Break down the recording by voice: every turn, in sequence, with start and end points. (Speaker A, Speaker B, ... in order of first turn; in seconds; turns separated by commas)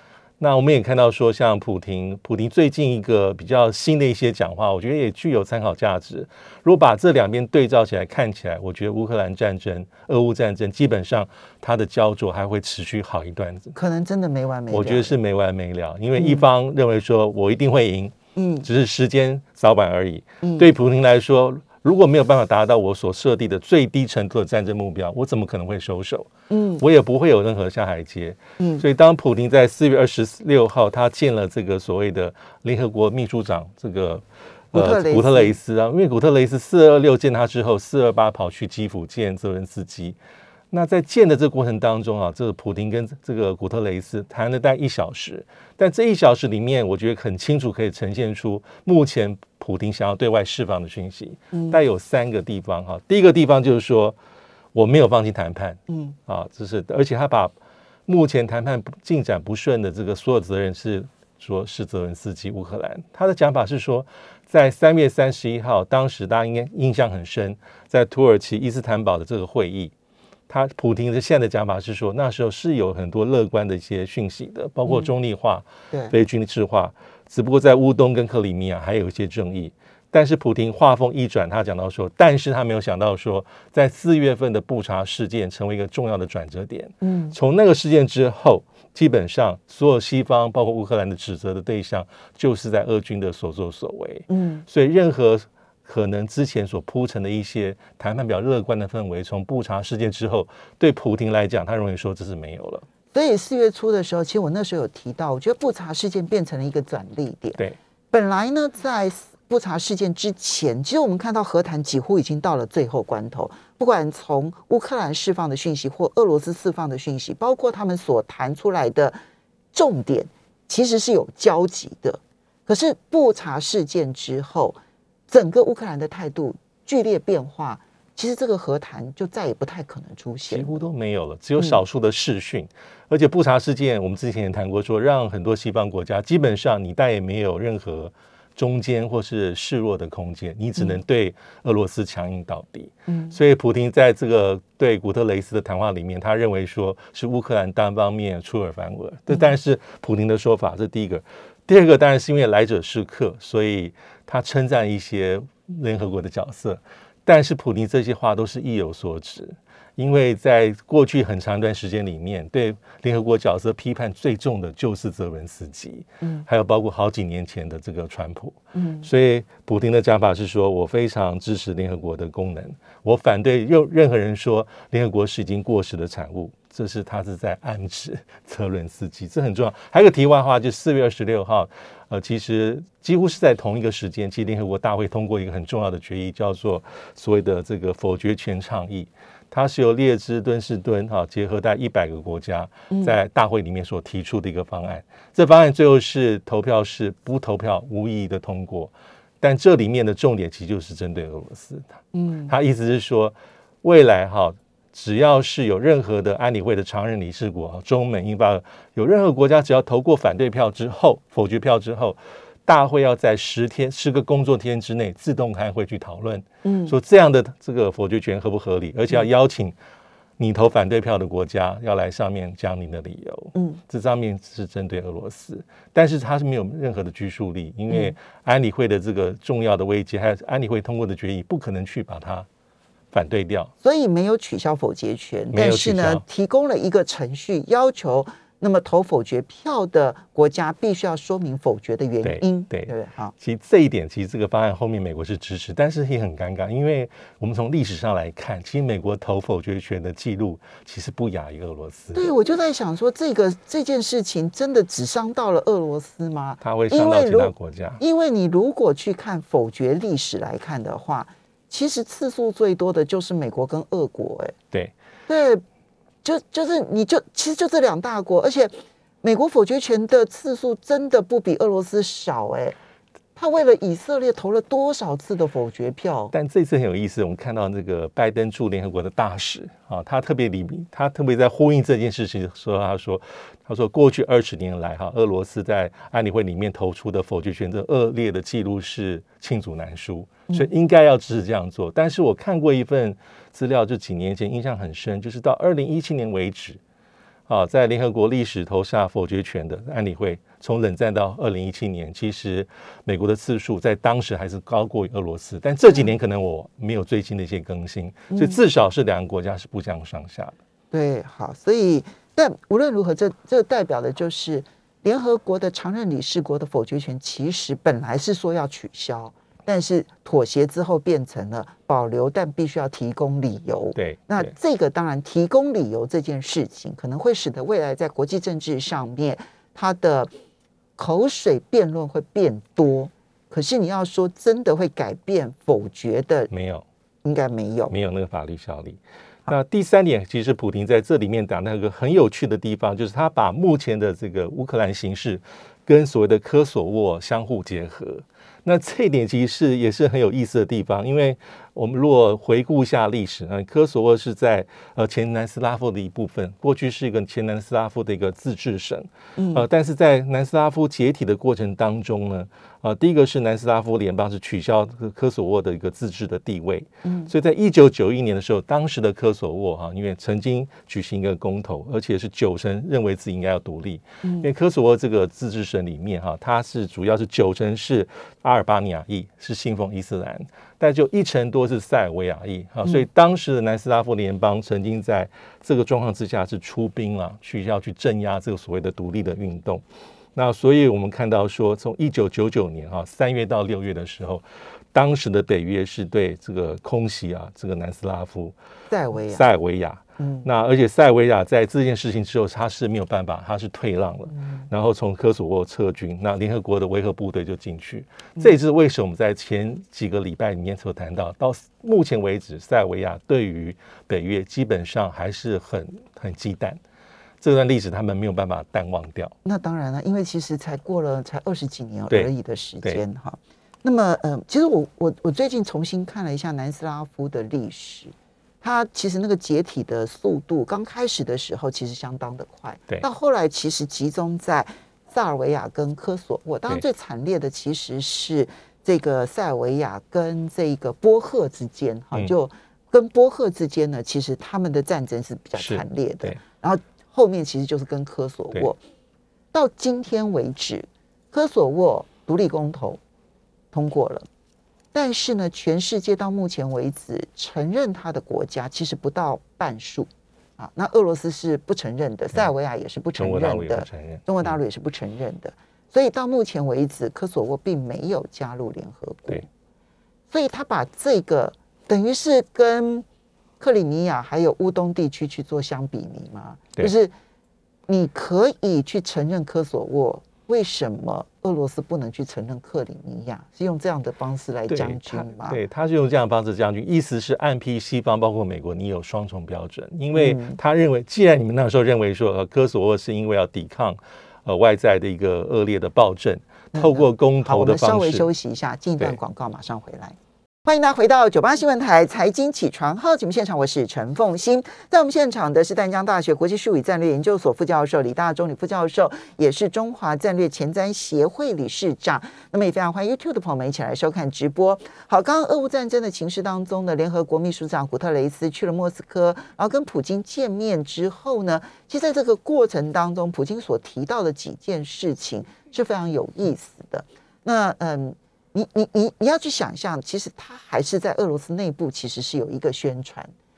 Speaker A: 0.4-13.8, Speaker B: 13.8-15.2, Speaker A: 14.7-40.2, Speaker B: 16.2-16.4, Speaker B: 18.4-18.7, Speaker B: 26.5-26.8, Speaker B: 28.6-28.9, Speaker B: 34.7-35.6, Speaker A: 40.7-54.2, Speaker B: 51.5-51.8, Speaker A: 54.7-57.6, Speaker B: 55.9-56.1, Speaker A: 58.1-69.9, Speaker A: 70.5-102.9, Speaker B: 87.0-87.3, Speaker B: 94.3-94.7, Speaker B: 103.1-119.2, Speaker B: 119.7-124.8, Speaker B: 125.3-130.8, Speaker A: 130.5-201.9, Speaker B: 143.1-143.4, Speaker B: 168.8-169.1, Speaker B: 192.9-193.2, Speaker B: 202.1-202.5, Speaker A: 202.5-219.8, Speaker B: 216.6-216.9, Speaker A: 220.4-232.5, Speaker B: 223.6-223.8, Speaker A: 233.1-233.7, Speaker B: 233.8-243.3, Speaker A: 235.5-236.2, Speaker A: 242.2-252.3, Speaker B: 252.1-264.6, Speaker A: 256.6-258.0, Speaker B: 265.3-265.6, Speaker B: 266.2-272.8, Speaker B: 273.4-276.3, Speaker A: 276.3-296.8, Speaker A: 297.5-310.6, Speaker B: 308.3-308.6, Speaker B: 310.9-330.3, Speaker A: 324.0-324.5, Speaker B: 331.0-336.5, Speaker A: 336.5-336.9, Speaker B: 337.2-337.9, Speaker A: 337.9-389.8, Speaker B: 359.4-359.7, Speaker B: 367.1-367.3, Speaker A: 390.4-398.6, Speaker B: 398.9-399.5, Speaker A: 399.1-416.8, Speaker B: 400.2-400.5, Speaker A: 417.4-419.4, Speaker B: 419.4-448.8, Speaker A: 445.6-446.4, Speaker B: 449.5-453.0, Speaker B: 453.7-454.3, Speaker B: 454.9-469.5, Speaker A: 463.2-464.6, Speaker B: 470.3-473.1, Speaker B: 473.6-477.1, Speaker B: 477.9-485.6, Speaker A: 484.7-498.3, Speaker B: 490.1-490.6, Speaker B: 496.7-533.3